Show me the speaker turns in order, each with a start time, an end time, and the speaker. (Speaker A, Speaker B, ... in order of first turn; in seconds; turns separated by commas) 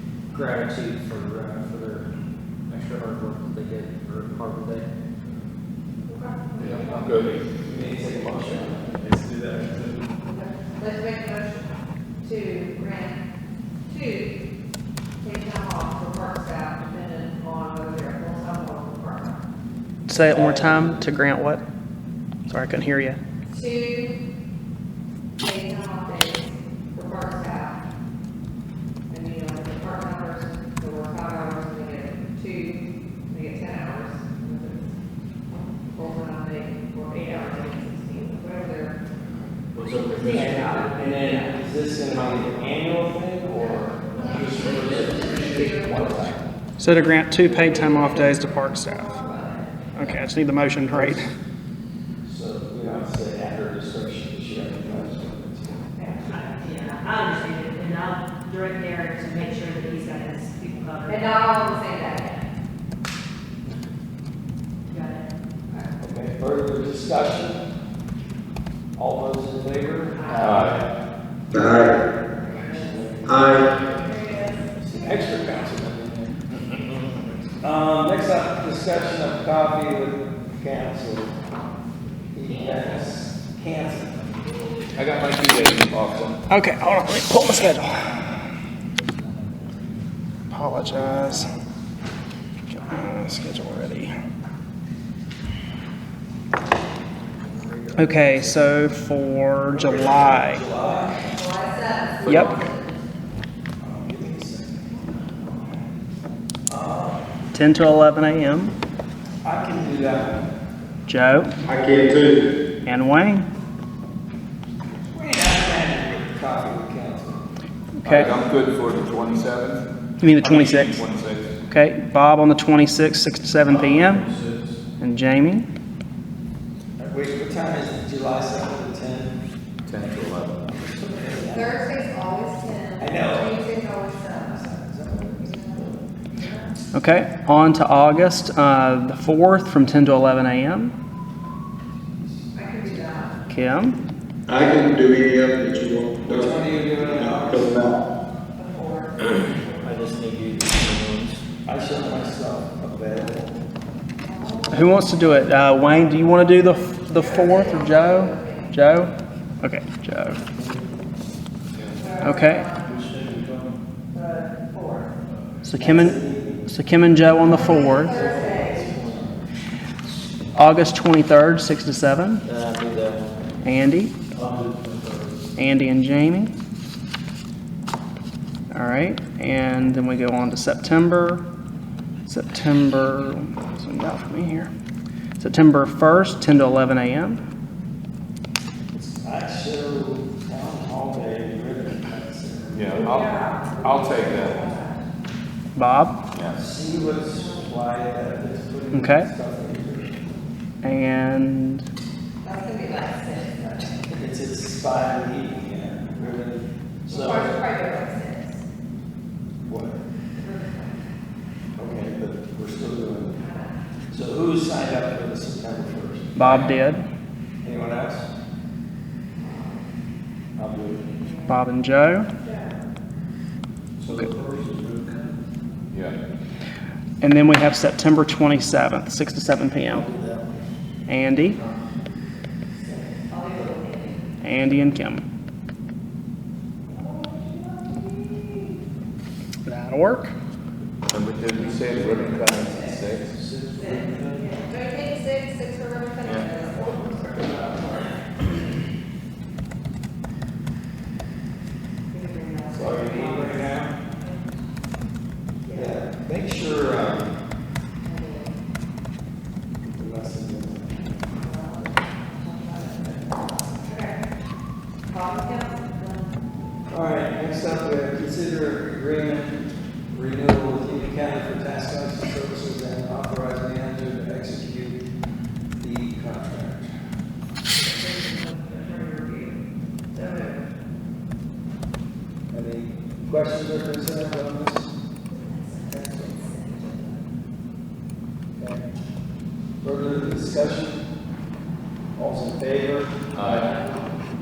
Speaker A: 0.3-2.1, Speaker A: 2.7-4.9, Speaker B: 6.0-7.4, Speaker C: 6.6-7.4, Speaker D: 7.6-9.1, Speaker B: 10.2-11.7, Speaker B: 12.2-13.2, Speaker B: 13.9-14.3, Speaker B: 15.2-19.4, Speaker E: 20.1-21.6, Speaker A: 20.3-21.0, Speaker E: 22.5-23.2, Speaker B: 23.5-24.1, Speaker B: 25.4-27.8, Speaker B: 29.1-34.9, Speaker B: 35.5-39.0, Speaker A: 39.7-41.3, Speaker B: 40.1-41.5, Speaker D: 40.2-46.4, Speaker B: 43.5-46.1, Speaker A: 44.2-46.3, Speaker E: 46.8-49.2, Speaker B: 47.4-50.1, Speaker E: 49.9-51.3, Speaker D: 50.9-51.2, Speaker D: 52.2-55.9, Speaker B: 55.9-57.0, Speaker F: 56.2-61.4, Speaker B: 61.0-62.4, Speaker F: 64.9-65.2, Speaker D: 66.0-67.6, Speaker D: 68.9-70.8, Speaker B: 70.1-70.7, Speaker C: 70.4-70.8, Speaker B: 71.6-74.7, Speaker D: 72.4-73.7, Speaker G: 73.3-73.6, Speaker D: 74.7-76.4, Speaker D: 77.6-81.3, Speaker D: 82.3-84.2, Speaker C: 85.0-86.4, Speaker E: 86.5-88.3, Speaker E: 90.5-91.5, Speaker E: 92.7-94.1, Speaker D: 97.4-98.7, Speaker E: 98.0-100.6, Speaker D: 99.7-101.2, Speaker B: 100.8-103.1, Speaker E: 102.2-102.5, Speaker D: 103.8-105.6, Speaker D: 106.7-107.2, Speaker E: 107.5-108.7, Speaker D: 109.4-110.5, Speaker E: 111.1-111.5, Speaker G: 111.7-112.5, Speaker E: 112.8-113.5, Speaker D: 115.1-117.4, Speaker E: 118.0-118.3, Speaker C: 118.0-119.8, Speaker E: 120.2-121.0, Speaker C: 120.4-121.5, Speaker E: 121.7-124.3, Speaker E: 125.0-125.7, Speaker D: 127.0-129.4, Speaker C: 129.9-130.6, Speaker D: 130.6-131.8, Speaker B: 131.5-134.7, Speaker D: 133.0-133.6, Speaker D: 134.5-136.1, Speaker B: 135.3-136.7, Speaker E: 136.9-140.9, Speaker B: 142.5-143.4, Speaker E: 143.5-144.0, Speaker G: 144.5-146.5, Speaker D: 146.2-147.8, Speaker G: 147.1-147.9, Speaker B: 148.6-149.8, Speaker A: 149.8-151.4, Speaker D: 151.6-153.6, Speaker B: 154.2-155.1, Speaker E: 154.7-160.4, Speaker B: 157.1-158.7, Speaker B: 161.9-163.3, Speaker E: 162.1-162.7, Speaker B: 164.1-165.1, Speaker E: 165.6-168.2, Speaker D: 165.8-166.6, Speaker D: 167.3-169.4, Speaker B: 167.4-168.9, Speaker E: 170.5-172.4, Speaker A: 172.4-173.3, Speaker E: 173.6-174.2, Speaker G: 174.4-174.9, Speaker E: 175.6-176.5, Speaker E: 178.7-181.4, Speaker E: 182.2-184.7, Speaker E: 185.4-187.4, Speaker D: 188.9-193.0, Speaker C: 192.7-194.7, Speaker B: 192.9-195.0, Speaker E: 195.8-196.3, Speaker C: 196.3-196.7, Speaker D: 196.5-200.2, Speaker B: 197.0-197.7, Speaker E: 198.9-199.3, Speaker E: 200.8-201.8, Speaker B: 202.4-203.9, Speaker D: 204.1-207.6, Speaker B: 207.1-208.6, Speaker D: 209.6-210.0, Speaker B: 210.3-211.1, Speaker D: 211.8-213.4, Speaker B: 213.3-213.8, Speaker D: 214.1-216.8, Speaker E: 216.3-217.0, Speaker D: 217.6-218.3, Speaker B: 219.4-219.8, Speaker D: 220.6-221.1, Speaker B: 221.2-221.6, Speaker E: 221.5-222.3, Speaker B: 222.4-222.8, Speaker G: 224.3-225.1, Speaker C: 225.9-226.2, Speaker E: 227.2-230.1, Speaker A: 229.9-230.6, Speaker E: 231.1-231.6, Speaker B: 233.1-234.2, Speaker E: 234.4-235.2, Speaker B: 236.9-238.7, Speaker E: 239.7-240.3, Speaker C: 241.1-243.3, Speaker D: 241.9-242.3, Speaker D: 243.3-244.5, Speaker B: 243.7-248.1, Speaker C: 246.2-246.5, Speaker B: 252.1-254.4, Speaker D: 252.7-254.0, Speaker B: 255.6-256.0, Speaker D: 255.7-257.4, Speaker B: 258.0-258.5, Speaker D: 259.9-261.0, Speaker B: 261.4-264.2, Speaker B: 265.1-266.5, Speaker D: 266.9-275.0, Speaker D: 275.8-276.9, Speaker B: 277.8-279.6, Speaker B: 280.1-280.7, Speaker D: 282.5-284.9, Speaker B: 285.3-287.2, Speaker D: 285.9-286.4, Speaker D: 288.6-288.9, Speaker D: 289.8-291.0, Speaker D: 292.1-293.8